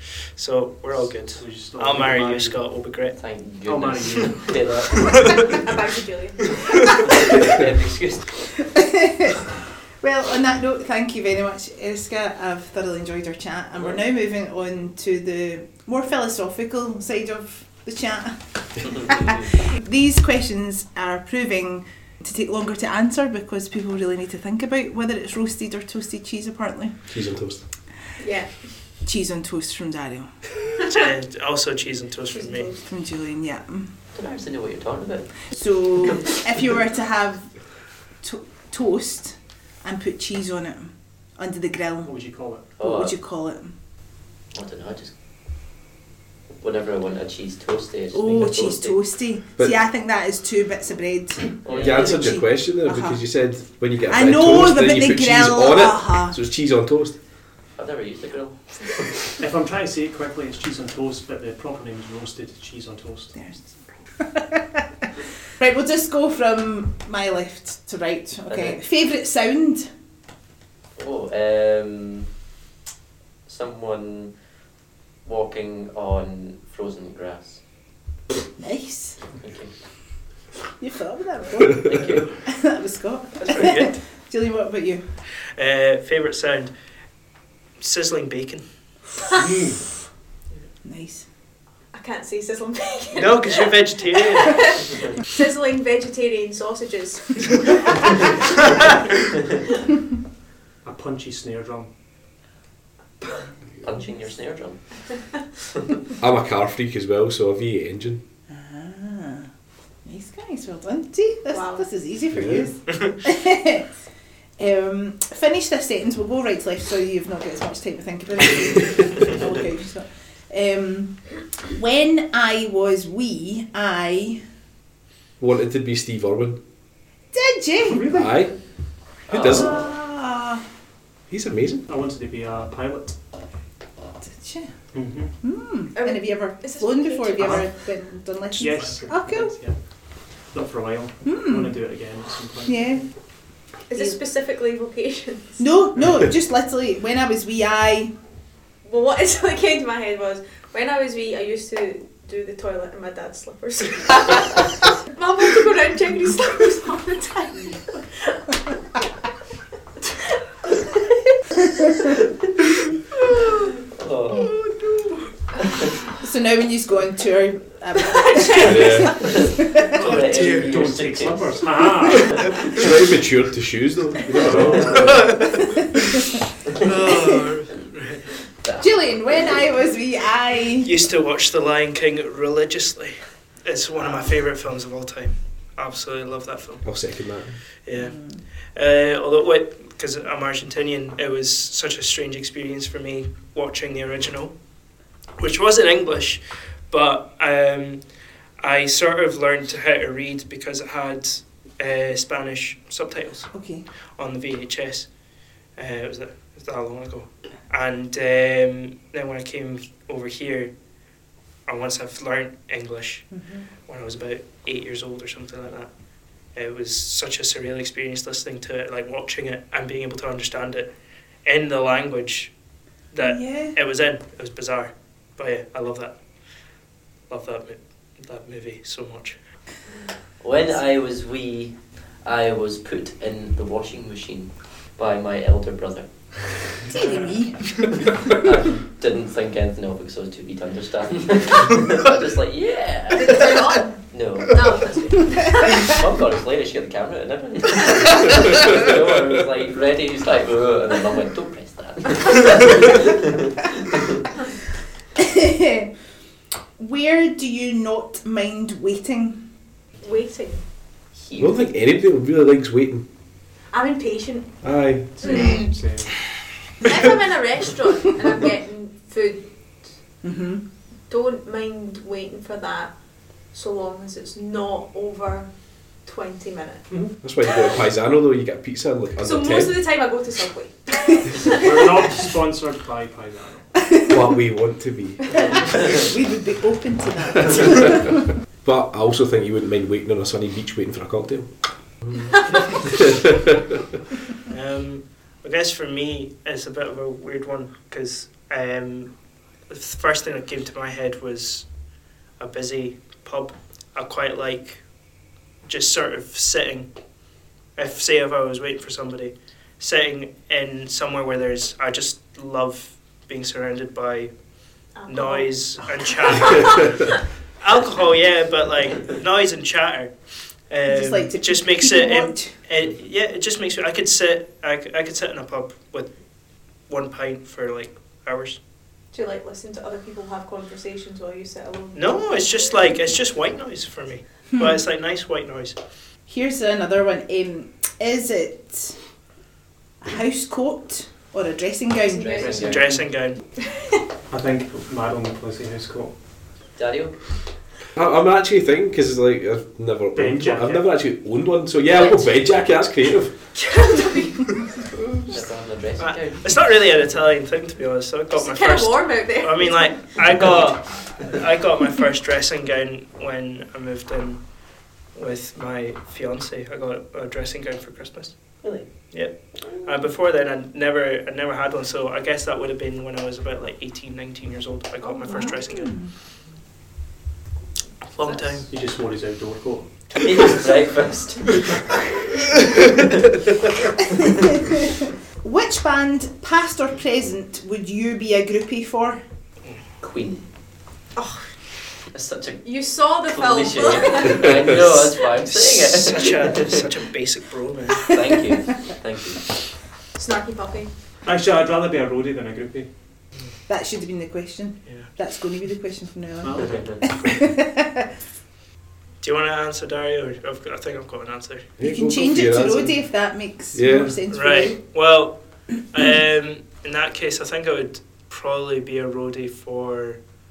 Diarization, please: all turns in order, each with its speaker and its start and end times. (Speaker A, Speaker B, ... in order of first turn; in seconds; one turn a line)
Speaker A: 0.3-3.2
Speaker B: 0.9-2.8
Speaker C: 3.1-5.5
Speaker B: 3.6-4.7
Speaker D: 5.6-6.8
Speaker C: 7.1-8.4
Speaker E: 9.0-9.4
Speaker E: 10.0-27.0
Speaker F: 27.1-27.6
Speaker D: 28.2-28.6
Speaker E: 29.0-30.3
Speaker A: 30.9-32.7
Speaker D: 32.3-32.9
Speaker E: 32.9-33.9
Speaker C: 34.1-36.3
Speaker E: 35.5-43.7
Speaker B: 42.0-42.7
Speaker C: 42.8-43.1
Speaker C: 44.5-45.1
Speaker C: 46.6-49.1
Speaker E: 48.1-53.2
Speaker C: 51.6-52.1
Speaker B: 51.7-52.0
Speaker F: 51.8-57.2
Speaker E: 54.1-56.4
Speaker C: 57.7-59.4
Speaker B: 59.4-63.4
Speaker E: 63.3-64.8
Speaker E: 65.6-69.9
Speaker C: 68.5-68.8
Speaker C: 71.0-72.3
Speaker C: 73.4-74.4
Speaker C: 75.2-77.6
Speaker E: 78.6-79.2
Speaker C: 79.4-79.7
Speaker E: 80.8-81.9
Speaker C: 81.8-82.4
Speaker E: 82.5-85.0
Speaker C: 83.4-83.8
Speaker A: 83.6-83.9
Speaker A: 85.4-86.7
Speaker A: 87.8-88.7
Speaker B: 89.3-89.9
Speaker E: 90.8-91.2
Speaker D: 91.9-98.3
Speaker A: 93.1-94.7
Speaker B: 100.8-101.9
Speaker C: 103.8-105.4
Speaker F: 106.2-108.2
Speaker E: 108.5-109.5
Speaker E: 110.0-113.9
Speaker D: 111.5-111.9
Speaker F: 112.3-112.7
Speaker E: 114.6-124.4
Speaker F: 125.4-126.6
Speaker E: 127.3-128.2
Speaker B: 127.9-128.5
Speaker F: 128.1-129.8
Speaker C: 129.3-129.8
Speaker E: 129.6-130.6
Speaker F: 131.3-131.9
Speaker B: 131.9-133.2
Speaker E: 134.2-139.5
Speaker B: 134.9-135.4
Speaker D: 135.9-137.7
Speaker B: 137.4-137.7
Speaker B: 138.5-143.0
Speaker E: 141.2-141.8
Speaker E: 142.7-143.1
Speaker D: 143.9-145.6
Speaker E: 145.6-148.1
Speaker B: 146.0-146.3
Speaker D: 148.8-158.6
Speaker D: 160.9-161.9
Speaker C: 163.9-164.6
Speaker A: 164.8-165.0
Speaker E: 166.2-169.9
Speaker D: 168.2-169.1
Speaker F: 168.5-169.3
Speaker C: 169.1-172.6
Speaker A: 170.0-170.7
Speaker B: 170.4-172.6
Speaker F: 172.7-175.2
Speaker B: 174.3-175.4
Speaker C: 174.5-175.1
Speaker A: 175.0-175.8
Speaker A: 176.8-178.3
Speaker C: 178.6-179.5
Speaker E: 178.8-180.9
Speaker A: 180.8-187.0
Speaker F: 186.8-187.6
Speaker A: 187.8-194.6
Speaker E: 187.9-188.4
Speaker A: 195.4-198.1
Speaker A: 198.6-203.5
Speaker E: 203.5-203.9
Speaker A: 204.1-205.1
Speaker A: 205.7-210.7
Speaker A: 211.7-215.9
Speaker E: 213.3-213.7
Speaker A: 216.4-222.5
Speaker A: 223.1-226.7
Speaker E: 223.2-223.8
Speaker A: 227.3-229.4
Speaker C: 230.4-237.1
Speaker E: 236.9-237.8
Speaker C: 238.4-254.2
Speaker D: 243.1-245.7
Speaker E: 255.2-255.9
Speaker E: 256.8-259.5
Speaker D: 260.0-260.6
Speaker C: 261.2-261.6
Speaker F: 261.4-263.1
Speaker D: 263.7-265.7
Speaker F: 264.6-265.6
Speaker B: 265.6-266.1
Speaker D: 266.8-270.0
Speaker E: 270.2-270.6
Speaker D: 271.1-277.2
Speaker B: 276.9-277.1
Speaker F: 277.2-279.9
Speaker D: 279.2-281.5
Speaker B: 281.5-283.9
Speaker E: 283.8-284.2
Speaker F: 284.1-285.4
Speaker B: 285.3-285.7
Speaker E: 285.4-288.1
Speaker F: 287.6-293.6
Speaker A: 294.5-299.1
Speaker A: 299.7-305.0
Speaker A: 305.6-306.9
Speaker A: 307.7-328.6
Speaker D: 314.9-316.9
Speaker E: 320.9-322.5
Speaker D: 329.1-333.0
Speaker A: 331.9-335.8
Speaker E: 336.3-339.2
Speaker E: 340.0-342.6
Speaker D: 342.1-342.6
Speaker C: 342.1-343.0
Speaker B: 342.4-343.2
Speaker A: 342.6-343.4
Speaker B: 344.3-346.6
Speaker C: 346.7-347.2
Speaker F: 347.9-353.5
Speaker B: 350.1-350.9
Speaker C: 351.9-352.2
Speaker D: 353.5-354.6
Speaker C: 355.3-356.7
Speaker A: 356.0-376.1
Speaker D: 358.3-360.5
Speaker C: 368.6-370.0
Speaker D: 375.1-375.5
Speaker E: 375.2-376.1
Speaker A: 378.1-378.7
Speaker B: 378.7-380.6
Speaker C: 380.1-381.6
Speaker E: 385.4-389.2
Speaker C: 390.0-390.5
Speaker D: 391.1-391.6
Speaker C: 392.1-396.9
Speaker D: 392.6-394.6
Speaker A: 395.4-398.2
Speaker C: 397.9-399.4
Speaker D: 400.1-400.9
Speaker B: 401.2-402.9
Speaker E: 403.7-408.0
Speaker B: 406.4-407.0
Speaker C: 406.5-407.3
Speaker A: 409.2-411.7
Speaker F: 411.8-413.0
Speaker E: 411.8-414.8
Speaker F: 413.7-414.1
Speaker B: 413.9-414.2
Speaker A: 414.3-420.2